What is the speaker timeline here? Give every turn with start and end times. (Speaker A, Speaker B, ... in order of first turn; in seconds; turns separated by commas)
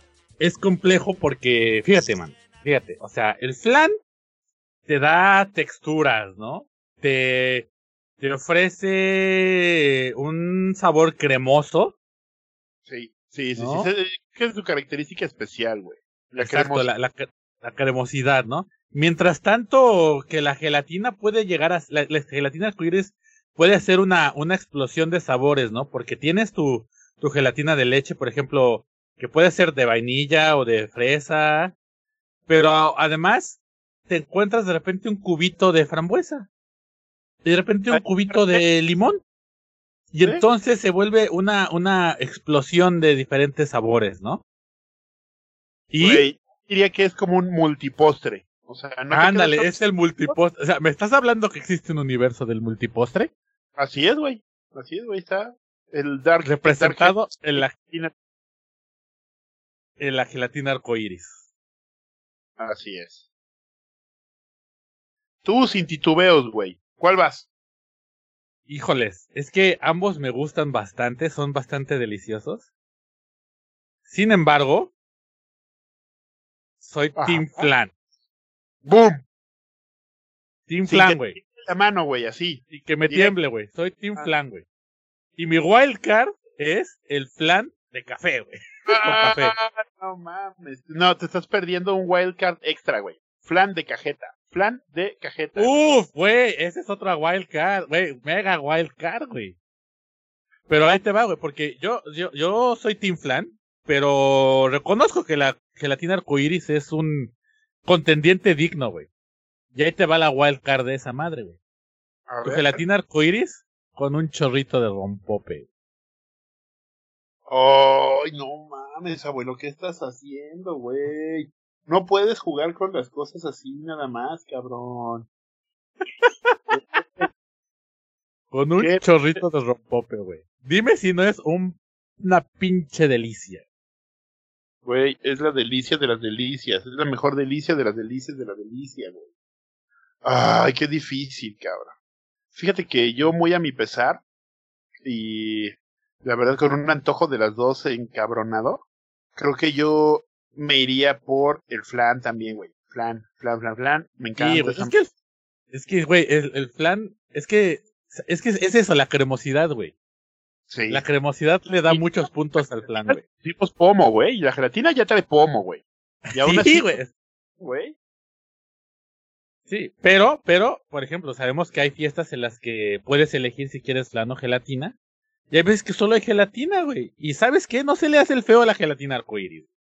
Speaker A: 0.4-4.0, Speaker A: 4.9-7.7, Speaker A: 8.2-11.9, Speaker B: 12.9-16.9, Speaker A: 13.6-13.9, Speaker A: 16.4-31.7, Speaker A: 32.5-36.5, Speaker A: 37.5-39.2, Speaker B: 37.9-38.6, Speaker A: 40.1-44.4, Speaker A: 45.9-46.2, Speaker B: 46.0-49.8, Speaker A: 49.1-53.3, Speaker B: 53.8-58.1, Speaker A: 56.4-57.7, Speaker A: 60.0-61.5, Speaker B: 62.6-63.3, Speaker B: 65.4-67.5, Speaker A: 68.7-72.7, Speaker A: 74.1-74.9, Speaker A: 76.8-77.9, Speaker B: 77.2-77.7, Speaker B: 78.8-79.2, Speaker A: 80.7-81.4, Speaker B: 80.9-83.3, Speaker A: 82.7-84.7, Speaker A: 85.4-89.5, Speaker B: 88.9-95.7, Speaker A: 95.6-99.6, Speaker A: 100.7-107.3, Speaker A: 107.8-109.1, Speaker A: 109.7-111.6, Speaker B: 112.3-112.8, Speaker A: 112.4-115.7, Speaker B: 117.5-125.3, Speaker A: 126.2-127.3, Speaker B: 126.7-127.3, Speaker A: 128.5-133.6, Speaker B: 128.8-129.4, Speaker B: 134.8-139.3, Speaker B: 140.2-141.9, Speaker B: 142.5-144.2, Speaker B: 145.0-148.8, Speaker B: 149.4-154.9, Speaker A: 154.4-155.1, Speaker A: 155.7-159.9, Speaker B: 160.7-161.0, Speaker A: 160.9-163.2, Speaker B: 161.9-162.3, Speaker B: 162.9-165.8, Speaker A: 166.3-167.1, Speaker B: 166.3-167.0, Speaker B: 167.6-167.9, Speaker A: 169.7-174.9, Speaker A: 175.5-179.7